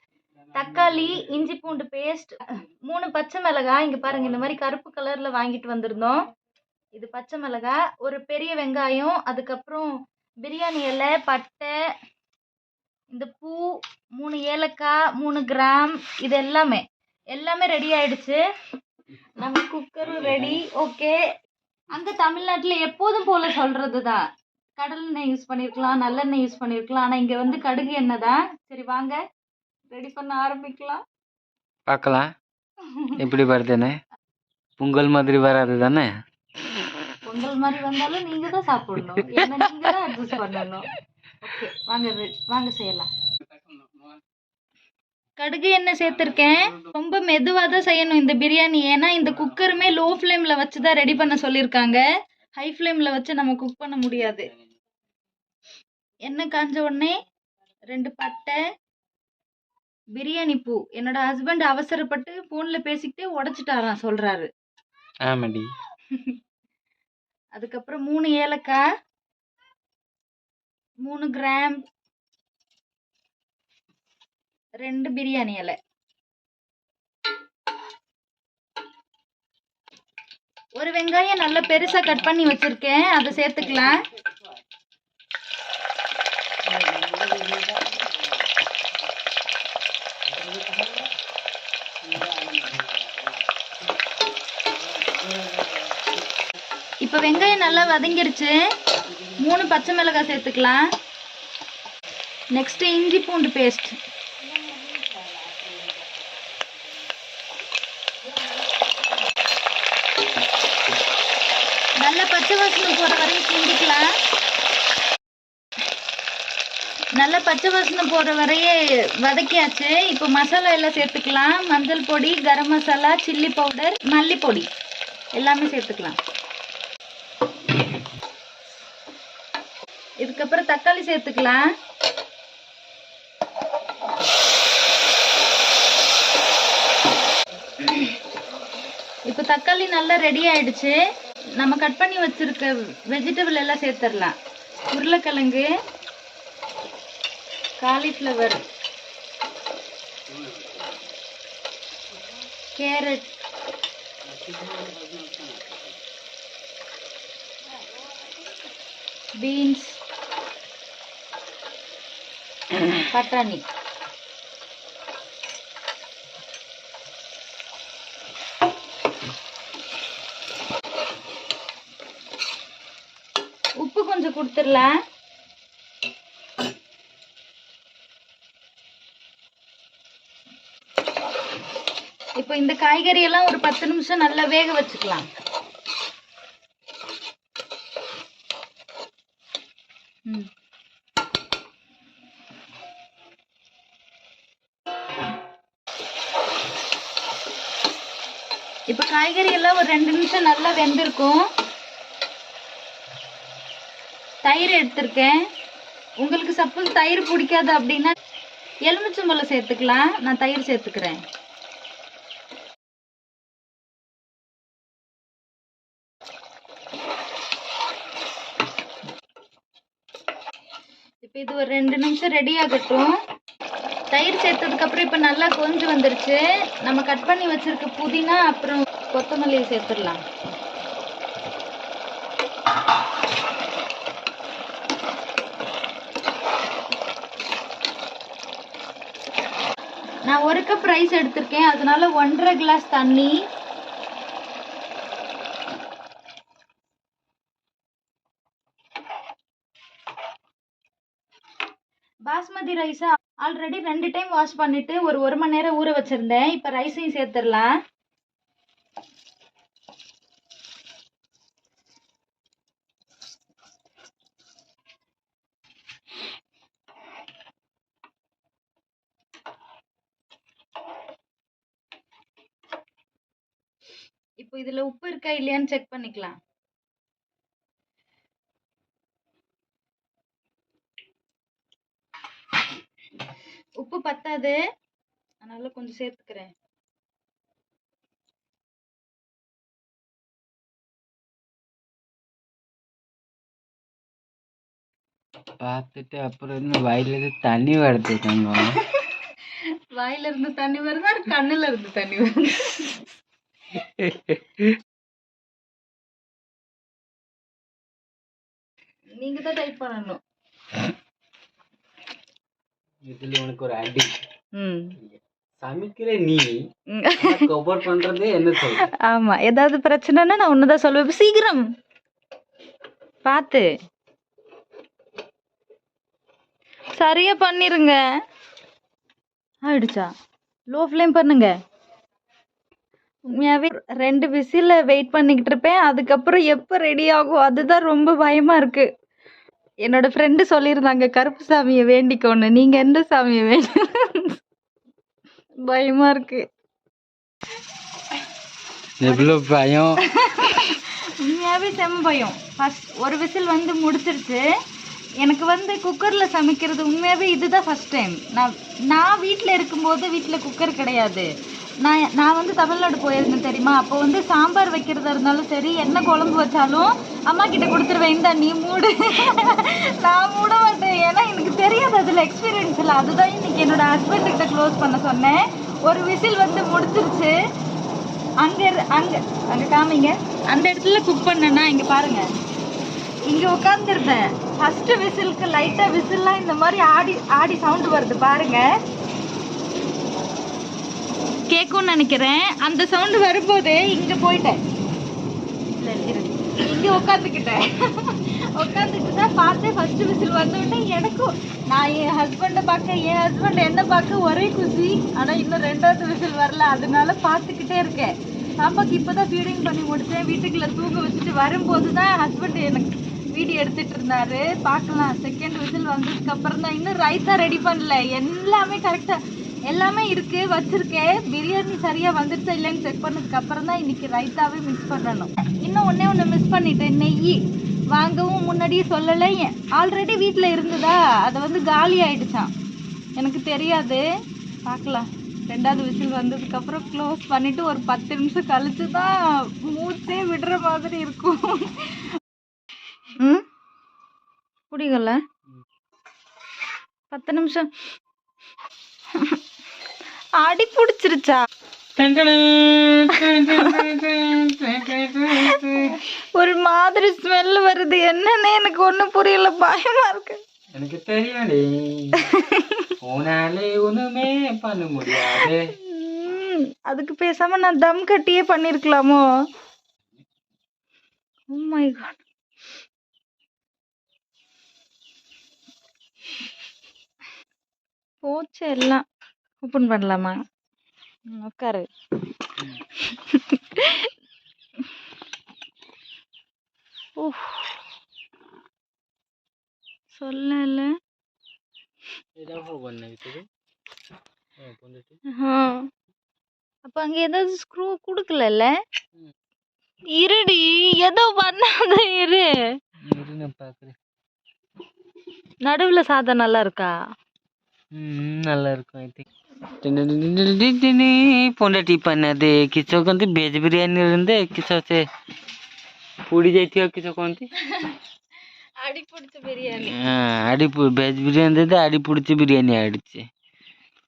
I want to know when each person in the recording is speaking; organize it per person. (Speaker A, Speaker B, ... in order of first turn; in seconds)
Speaker A: 0.6-6.2, 7.0-9.9, 10.4-11.7, 13.1-18.4, 19.4-21.2, 21.9-24.2, 24.8-29.2, 29.9-31.0, 32.8-33.2, 37.3-40.9, 41.4-43.1, 45.4-52.0, 52.6-54.5, 56.3-57.2, 57.9-58.6, 60.2-64.5, 67.5-68.8, 71.0-71.8, 74.8-75.8, 80.8-84.0, 97.0-98.6, 99.2-100.8, 102.5-104.0, 112.0-114.0, 117.2-124.7, 125.4-126.2, 130.2-131.6, 139.3-141.0, 141.6-144.3, 144.9-145.7, 147.8-148.6, 152.8-153.3, 159.4-160.0, 163.0-163.6, 173.8-174.9, 182.4-185.3, 198.9-201.4, 204.4-205.4, 206.2-208.1, 208.9-211.2, 221.2-223.1, 224.1-230.2, 240.3-243.4, 252.3-257.7, 274.4-276.4, 283.8-284.6, 285.4-286.5, 299.9-303.1, 309.2-310.2, 314.6-314.9, 316.9-317.5, 318.7-321.6, 323.2-323.7, 327.0-328.0, 329.6-330.1, 330.7-331.5, 333.3-338.9, 339.9-344.4, 345.7-346.4, 349.0-349.3, 350.0-354.4, 355.2-361.3, 361.8-377.3, 378.4-382.3, 383.3-388.7, 391.5-394.6, 395.8-427.4, 427.9-432.5, 433.2-434.0, 434.7-442.2, 443.2-443.4, 444.7-445.2, 447.1-447.7, 449.1-449.4, 450.4-451.4, 453.1-453.9, 455.4-460.4, 462.2-462.9, 465.2-469.2, 471.5-472.2, 478.2-479.0, 479.6-480.4, 481.3-481.9, 483.0-484.1, 487.2-487.7, 490.1-490.9, 495.3-495.9, 496.9-498.7, 500.1-502.5, 505.6-506.9, 517.6-518.0, 518.8-520.1
Speaker B: 31.9-32.3, 33.2-34.0, 34.8-36.1, 65.2-65.7, 150.4-150.8, 154.3-155.4, 295.6-298.7, 303.8-304.8, 313.1-314.1, 315.0-316.6, 317.2-318.9, 349.0-350.0, 452.0-456.0, 460.8-462.3, 463.0-465.7, 492.4-493.5, 494.6-495.2, 503.1-504.0, 507.9-509.2, 509.8-515.0, 516.3-517.5, 519.8-523.2